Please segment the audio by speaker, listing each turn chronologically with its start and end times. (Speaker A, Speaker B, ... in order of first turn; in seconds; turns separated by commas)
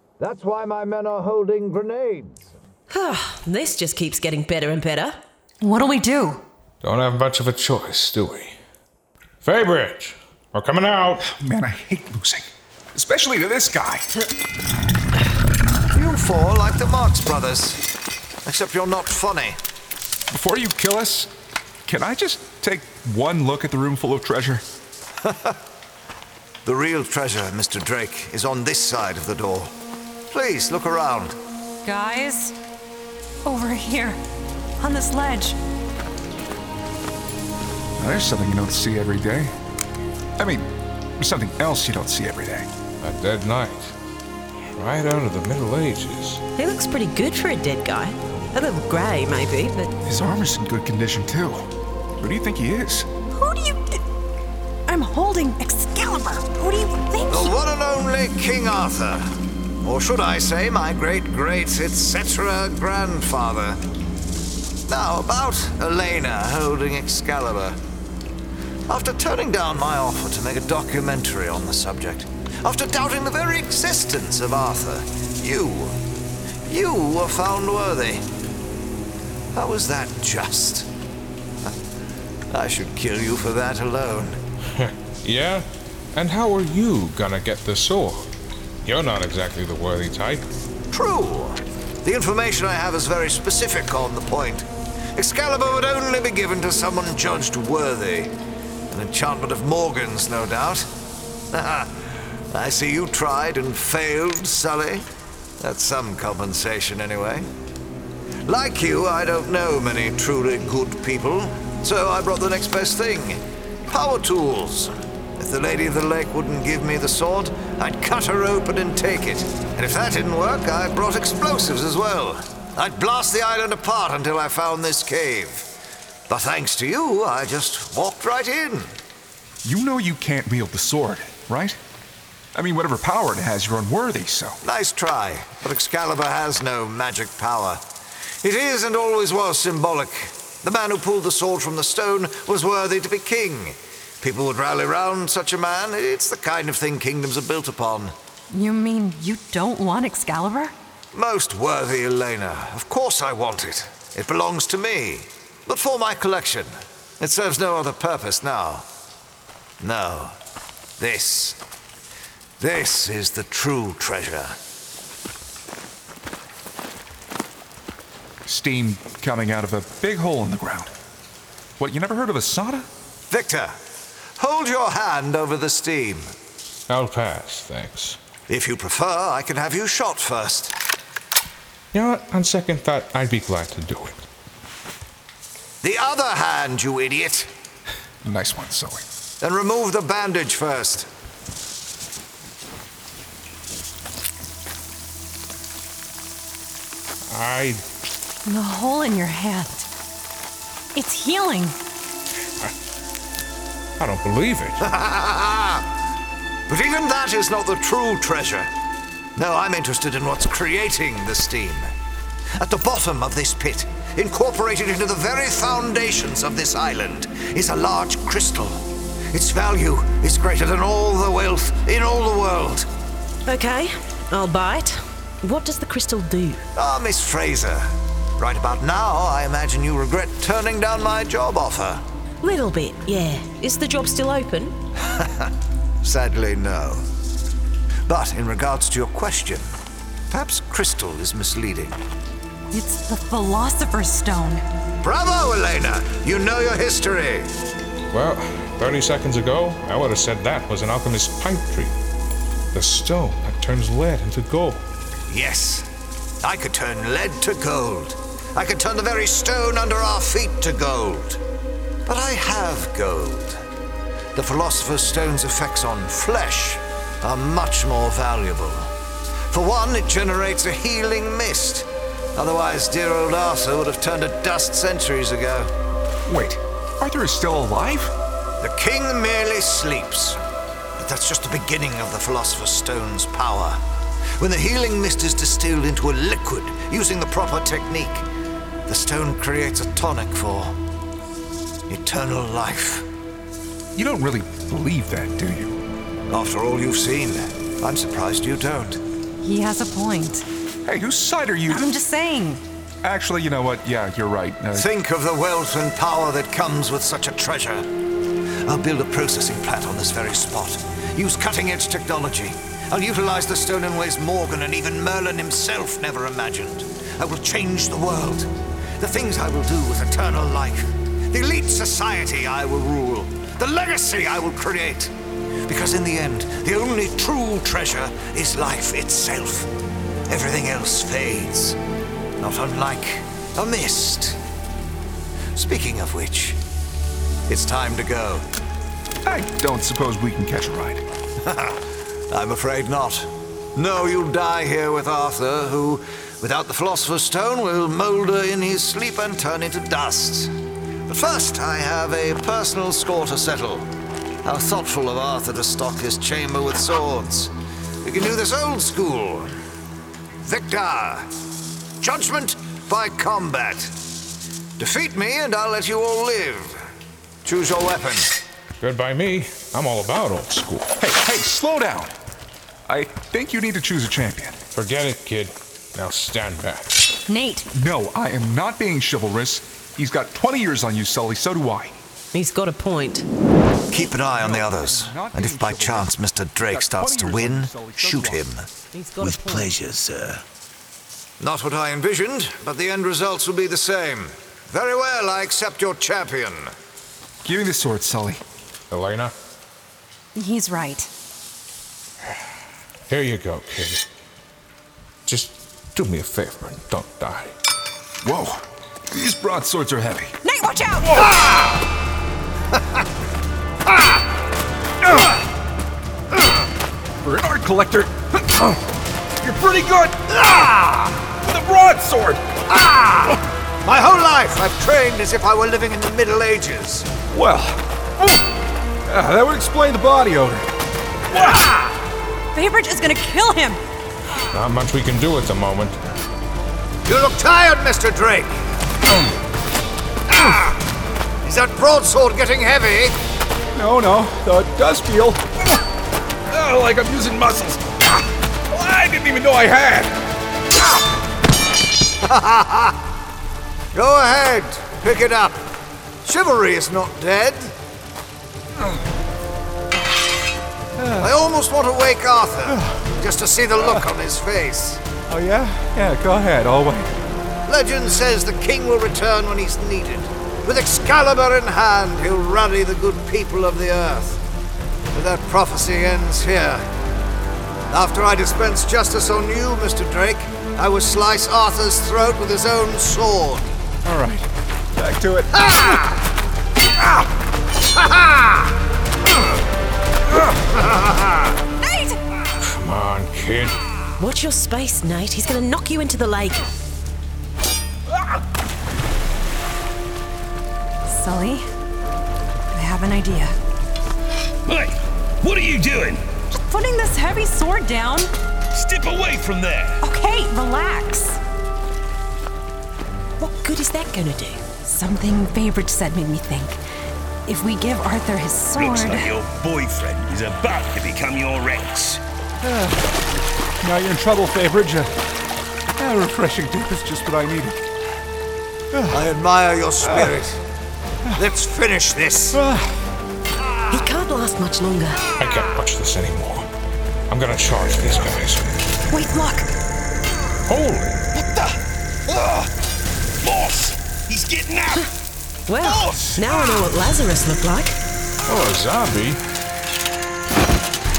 Speaker A: 0.2-2.6, Speaker B: 2.9-5.2, Speaker C: 5.6-6.4, Speaker D: 6.8-8.6, Speaker D: 9.4-11.2, Speaker E: 11.2-14.1, Speaker A: 15.9-17.8, Speaker A: 18.4-19.6, Speaker E: 20.3-21.3, Speaker E: 21.9-24.6, Speaker A: 25.2-25.6, Speaker A: 26.6-29.7, Speaker A: 30.3-31.4, Speaker C: 31.8-32.5, Speaker C: 33.4-34.2, Speaker C: 34.8-35.6, Speaker E: 38.0-39.5, Speaker E: 40.4-42.7, Speaker D: 43.0-43.9, Speaker D: 44.7-46.4, Speaker B: 46.6-49.9, Speaker E: 50.0-51.6, Speaker E: 52.2-53.1, Speaker C: 53.3-54.0, Speaker C: 54.9-57.5, Speaker A: 57.3-59.3, Speaker A: 59.8-63.8, Speaker A: 64.9-67.8, Speaker A: 68.9-76.0, Speaker A: 76.7-78.2, Speaker A: 79.5-80.9, Speaker A: 82.5-84.4, Speaker D: 84.7-88.3, Speaker D: 88.8-90.5, Speaker A: 90.9-98.3, Speaker A: 98.9-100.9, Speaker A: 101.5-102.0, Speaker A: 102.5-105.1, Speaker A: 105.6-107.5, Speaker A: 108.5-125.7, Speaker A: 126.3-128.9, Speaker E: 129.6-131.8, Speaker E: 132.5-134.6, Speaker A: 134.6-137.8, Speaker A: 138.4-148.1, Speaker C: 148.5-150.7, Speaker A: 151.1-158.9, Speaker A: 159.8-160.3, Speaker A: 161.0-161.6, Speaker A: 162.6-164.6, Speaker E: 168.4-170.9, Speaker E: 171.8-172.9, Speaker A: 173.3-173.8, Speaker A: 174.4-176.3, Speaker D: 176.9-178.2, Speaker A: 178.5-180.8, Speaker D: 181.9-184.2, Speaker A: 185.8-187.5, Speaker E: 188.2-189.0, Speaker A: 189.4-191.1, Speaker D: 197.3-197.8, Speaker C: 198.4-199.9, Speaker C: 200.9-201.8, Speaker D: 204.0-204.9, Speaker A: 204.8-205.9, Speaker A: 206.7-208.7, Speaker A: 209.3-211.9, Speaker A: 212.6-222.9, Speaker B: 223.4-226.6, Speaker A: 226.7-232.0, Speaker B: 232.4-234.7, Speaker A: 235.0-235.5, Speaker A: 236.0-237.1, Speaker A: 238.1-239.8, Speaker A: 240.3-242.0, Speaker C: 242.7-244.6, Speaker A: 245.0-247.5, Speaker D: 248.1-251.9, Speaker D: 252.7-254.8, Speaker A: 255.3-255.9, Speaker A: 256.4-261.4, Speaker A: 262.1-263.6, Speaker A: 264.3-268.9, Speaker A: 269.5-275.7, Speaker E: 276.3-278.1, Speaker A: 278.6-280.4, Speaker A: 281.0-283.8, Speaker A: 284.4-288.2, Speaker A: 288.9-290.8, Speaker A: 291.9-293.1, Speaker E: 293.9-295.7, Speaker A: 296.3-299.0, Speaker C: 299.4-300.4, Speaker E: 300.9-301.9, Speaker C: 301.7-302.6, Speaker E: 303.0-304.9, Speaker A: 304.7-307.9, Speaker A: 308.6-325.1, Speaker A: 325.6-329.7, Speaker A: 330.3-331.8, Speaker A: 332.4-334.4, Speaker A: 335.5-336.6, Speaker A: 337.5-338.4, Speaker E: 339.2-341.0, Speaker A: 341.4-350.5, Speaker A: 351.1-353.9, Speaker A: 354.4-359.5, Speaker A: 360.4-361.3, Speaker A: 362.0-363.9, Speaker A: 364.8-366.8, Speaker A: 367.4-368.4, Speaker D: 368.8-371.0, Speaker E: 371.0-372.1, Speaker E: 372.9-374.6, Speaker D: 374.7-377.1, Speaker C: 377.3-377.7, Speaker E: 377.7-381.9, Speaker B: 382.3-383.2, Speaker A: 383.9-388.7, Speaker E: 384.2-386.1, Speaker E: 386.7-388.4, Speaker B: 388.9-389.7, Speaker F: 389.2-390.4, Speaker A: 391.4-396.7, Speaker E: 397.4-398.4, Speaker D: 398.9-399.3, Speaker C: 400.4-401.1, Speaker D: 403.1-404.0, Speaker D: 405.3-407.5, Speaker E: 408.2-410.3, Speaker C: 410.4-411.2, Speaker A: 411.4-411.7, Speaker E: 417.2-418.8, Speaker E: 419.4-420.2, Speaker A: 420.3-421.2, Speaker E: 421.3-422.4, Speaker A: 422.7-427.1, Speaker E: 427.3-428.5, Speaker E: 429.1-430.7, Speaker E: 431.3-431.6, Speaker A: 431.4-432.0, Speaker C: 432.5-433.8, Speaker D: 434.5-435.9, Speaker A: 437.0-438.5, Speaker A: 440.3-440.8, Speaker A: 441.4-443.2, Speaker E: 443.7-445.8, Speaker E: 446.5-450.2, Speaker A: 452.2-453.0, Speaker A: 453.9-455.6, Speaker A: 456.2-457.7, Speaker E: 461.0-461.3, Speaker A: 461.2-465.0, Speaker E: 462.7-463.0, Speaker E: 465.3-467.1, Speaker A: 467.6-474.4, Speaker A: 475.1-476.9, Speaker A: 477.9-483.7, Speaker E: 484.0-485.8, Speaker A: 485.5-486.2, Speaker A: 488.0-488.6, Speaker A: 490.7-491.6, Speaker C: 491.8-492.2, Speaker D: 492.6-493.8, Speaker B: 494.2-496.6, Speaker C: 501.1-501.7, Speaker C: 502.7-503.5, Speaker F: 504.7-506.2, Speaker C: 506.5-508.3, Speaker F: 508.7-510.0, Speaker C: 510.0-511.4, Speaker B: 513.4-514.6, Speaker C: 514.8-516.8, Speaker C: 517.5-519.3, Speaker F: 518.8-522.2, Speaker E: 522.6-523.0, Speaker E: 523.8-525.1, Speaker E: 526.0-527.8, Speaker E: 528.9-529.2, Speaker A: 529.1-530.6, Speaker E: 530.0-530.3, Speaker A: 531.4-532.6, Speaker E: 532.5-532.9, Speaker B: 533.9-535.3, Speaker D: 535.4-536.7, Speaker D: 537.3-538.7, Speaker C: 539.1-539.7, Speaker D: 540.7-541.2, Speaker F: 541.3-541.8, Speaker F: 542.3-542.7, Speaker F: 543.4-545.1, Speaker B: 545.7-548.0, Speaker F: 545.8-546.8, Speaker D: 548.5-549.4